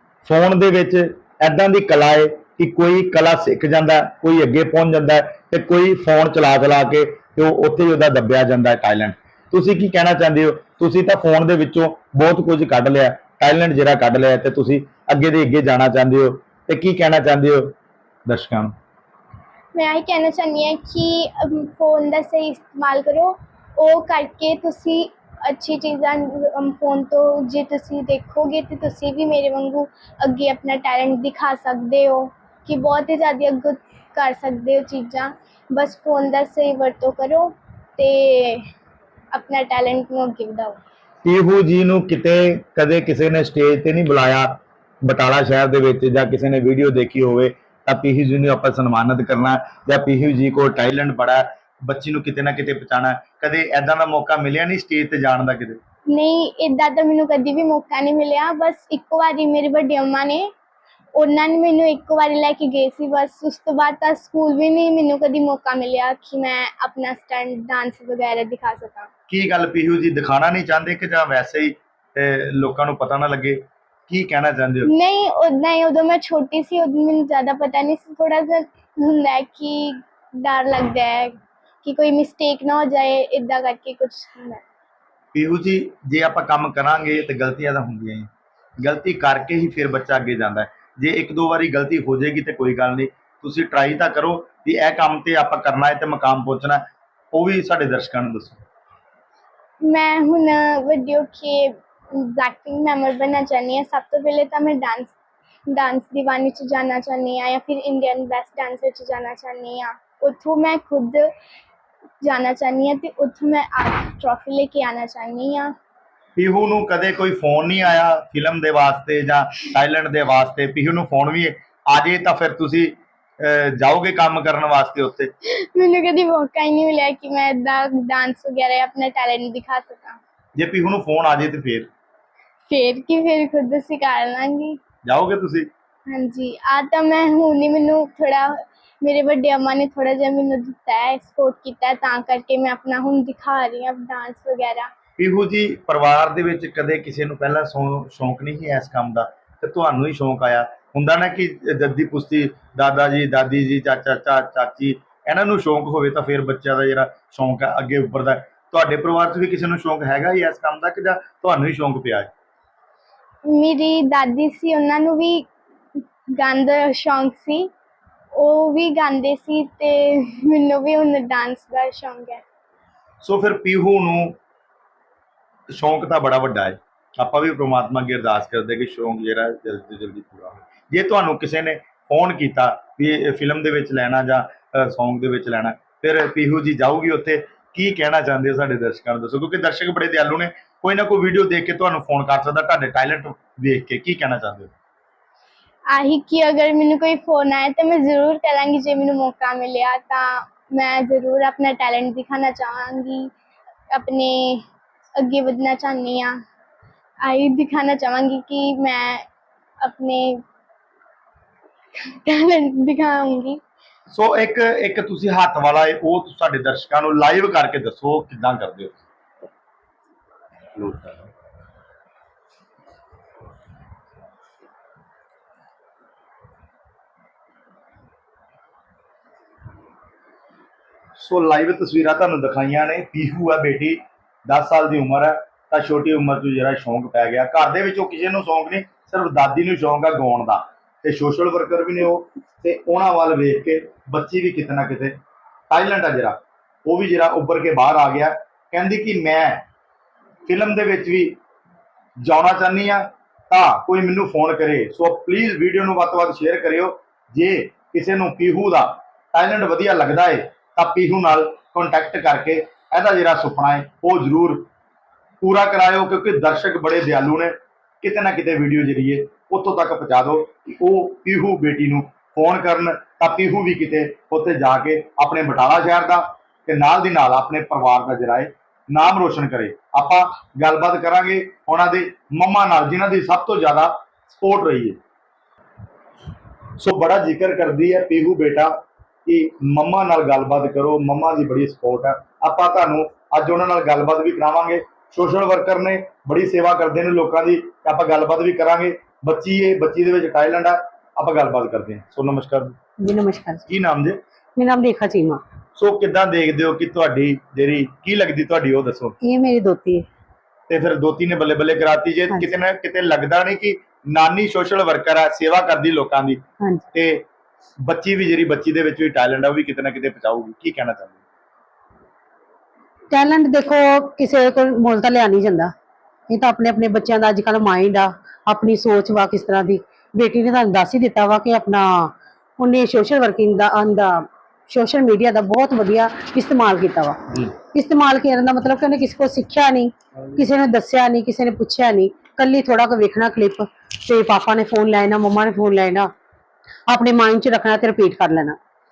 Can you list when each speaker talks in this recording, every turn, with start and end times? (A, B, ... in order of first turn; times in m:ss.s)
0:00.2-0:17.7 A
0:18.3-0:18.7 A
0:19.7-0:38.6 B
0:39.3-0:40.8 B
0:41.2-0:55.8 A
0:56.1-1:00.5 B
1:01.2-1:09.1 B
1:09.3-1:14.9 A
1:14.8-1:24.6 B
1:25.3-1:38.6 A
1:39.8-1:45.2 B
1:45.7-1:51.3 B
1:52.2-1:55.7 B
1:56.4-2:05.3 A
2:05.5-2:10.2 B
2:10.6-2:11.9 A
2:12.7-2:14.8 B
2:15.0-2:15.7 A
2:16.1-2:24.9 B
2:25.2-2:42.3 A
2:43.5-2:45.5 B
2:46.4-2:47.7 B
2:48.3-2:52.4 B
2:53.2-2:54.4 A
2:55.7-3:14.7 A
3:15.9-3:23.3 B
3:23.9-3:24.6 B
3:25.2-3:26.4 B
3:27.2-3:29.2 B
3:29.8-3:30.4 B
3:32.0-3:33.6 B
3:34.1-3:39.0 A
3:40.8-3:41.3 A
3:51.2-4:05.2 A
4:05.7-4:09.6 A
4:10.5-4:11.4 A
4:12.2-4:24.7 A
4:25.4-4:45.0 A
4:46.8-4:48.7 A
4:49.2-5:02.8 A
5:03.0-5:03.6 C
5:03.7-5:04.2 A
5:04.6-5:05.4 C
5:05.8-5:09.2 A
5:09.2-5:10.0 C
5:10.7-5:16.4 A
5:16.9-5:17.2 A
5:17.8-5:21.2 A
5:23.1-5:25.7 C
5:26.3-5:46.1 C
5:46.9-5:48.6 C